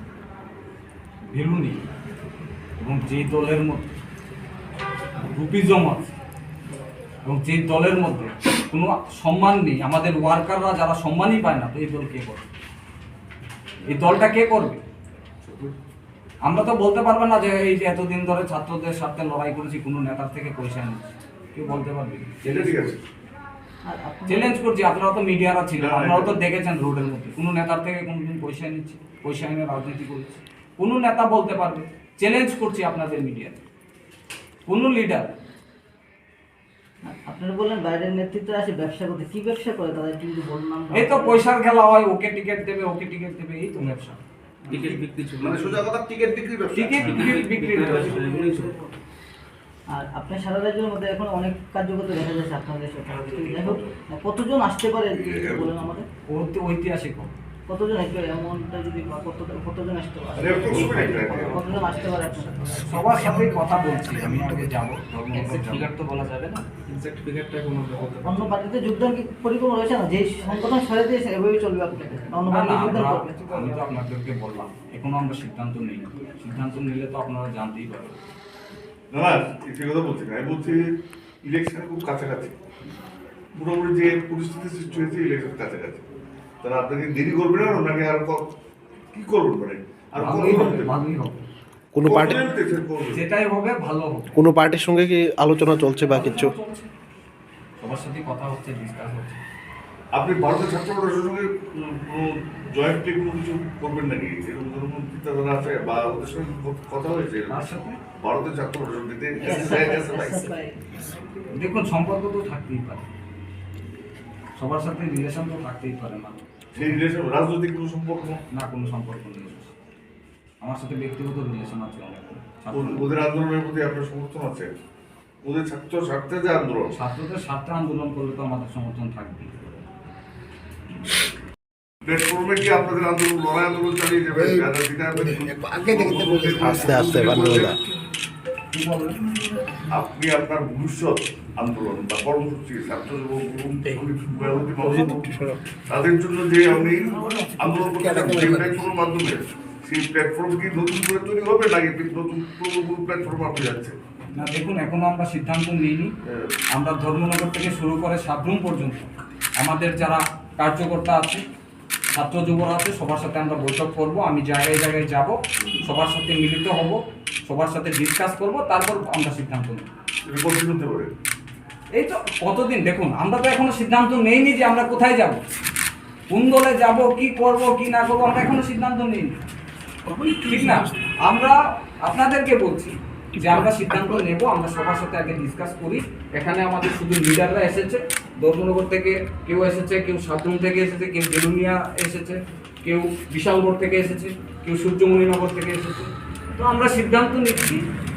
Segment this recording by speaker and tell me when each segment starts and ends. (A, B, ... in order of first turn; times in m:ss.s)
0:01.3-0:01.8 A
0:02.8-0:03.9 A
0:05.3-0:06.1 A
0:07.2-0:12.4 A
0:13.9-0:14.8 A
0:15.4-0:15.7 B
0:16.4-0:23.0 A
0:22.4-0:23.0 B
0:23.8-0:24.6 C
0:24.3-0:33.6 A
0:25.8-0:26.4 B
0:34.6-0:35.3 A
0:37.0-0:41.4 C
0:40.9-0:44.2 A
0:44.7-0:47.3 B
0:44.7-0:45.8 D
0:46.7-0:48.2 A
0:47.0-0:48.7 D
0:47.8-0:48.9 C
0:49.9-0:56.1 C
0:53.1-0:53.9 B
0:55.1-0:55.8 B
0:56.3-0:57.3 A
0:57.7-1:03.1 C
1:00.4-1:01.8 B
1:00.8-1:02.7 D
1:02.8-1:05.9 A
1:05.4-1:08.4 D
1:08.2-1:13.6 C
1:12.5-1:18.3 A
1:19.1-1:20.8 B
1:21.4-1:22.5 B
1:23.5-1:26.0 B
1:26.6-1:28.4 B
1:29.1-1:30.9 B
1:30.2-1:31.4 A
1:31.9-1:32.5 E
1:32.0-1:33.2 B
1:33.1-1:34.3 A
1:34.3-1:36.5 E
1:36.0-1:36.9 A
1:37.8-1:39.4 A
1:40.1-1:50.5 B
1:47.5-1:48.0 A
1:49.4-1:51.2 C
1:51.5-1:53.1 A
1:54.6-1:57.0 A
1:56.7-1:58.4 B
1:58.5-1:59.7 A
2:00.6-2:03.1 A
2:02.7-2:04.7 B
2:05.4-2:07.0 B
2:06.9-2:09.6 A
2:12.0-2:17.8 B
2:15.8-2:17.8 E
2:18.7-2:19.2 A
2:19.9-2:25.3 B
2:24.8-2:25.5 E
2:25.9-2:34.0 B
2:28.0-2:28.6 E
2:34.3-2:36.1 A
2:36.2-2:36.5 B
2:36.7-2:41.4 A
2:42.1-2:49.9 A
2:50.2-2:51.1 B
2:52.0-2:55.4 A
2:56.3-2:59.4 A
3:00.3-3:17.8 A